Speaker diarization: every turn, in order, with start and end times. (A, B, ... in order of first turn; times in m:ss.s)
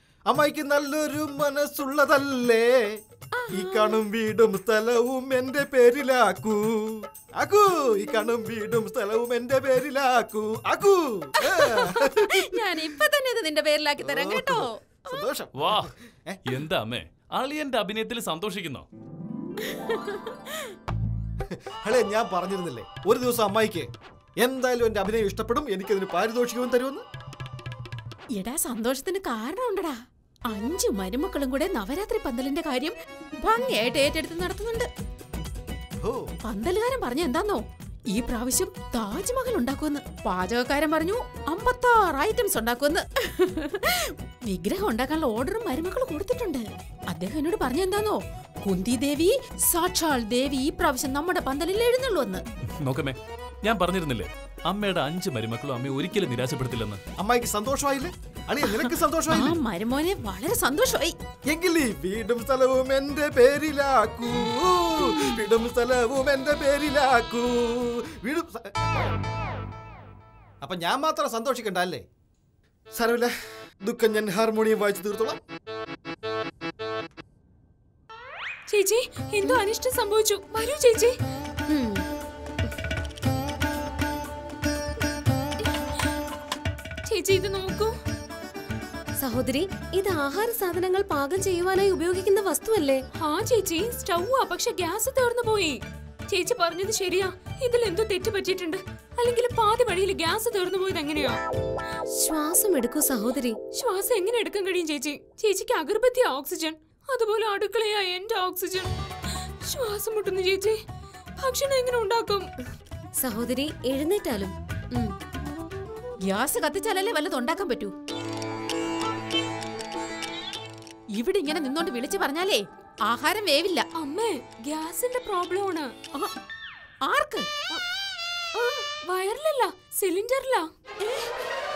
0:00.3-0:03.0 A
0:03.3-0:04.0 B
0:03.5-0:12.6 A
0:11.5-0:15.1 B
0:14.0-0:16.4 A
0:15.6-0:15.9 C
0:16.4-0:18.8 C
0:19.6-0:20.7 B
0:21.5-0:27.0 A
0:28.4-0:30.0 B
0:30.5-0:34.9 B
0:36.0-0:36.3 A
0:36.4-0:52.4 B
0:52.8-0:57.0 C
0:57.2-0:59.6 A
0:59.3-1:01.2 B
1:01.5-1:09.2 A
1:10.6-1:12.0 A
1:12.9-1:15.4 A
1:18.7-1:21.1 D
1:21.7-1:22.0 E
1:27.0-1:27.9 D
1:29.2-1:33.0 E
1:33.2-1:35.8 D
1:36.3-1:41.4 D
1:42.2-1:43.6 E
1:43.8-1:48.9 D
1:49.4-1:50.8 D
1:51.4-1:52.5 D
1:53.2-1:55.1 E
1:56.3-1:57.9 B
2:01.1-2:03.8 B
2:03.9-2:05.9 D
2:07.0-2:07.5 B
2:08.5-2:10.7 D
2:11.0-2:11.3 B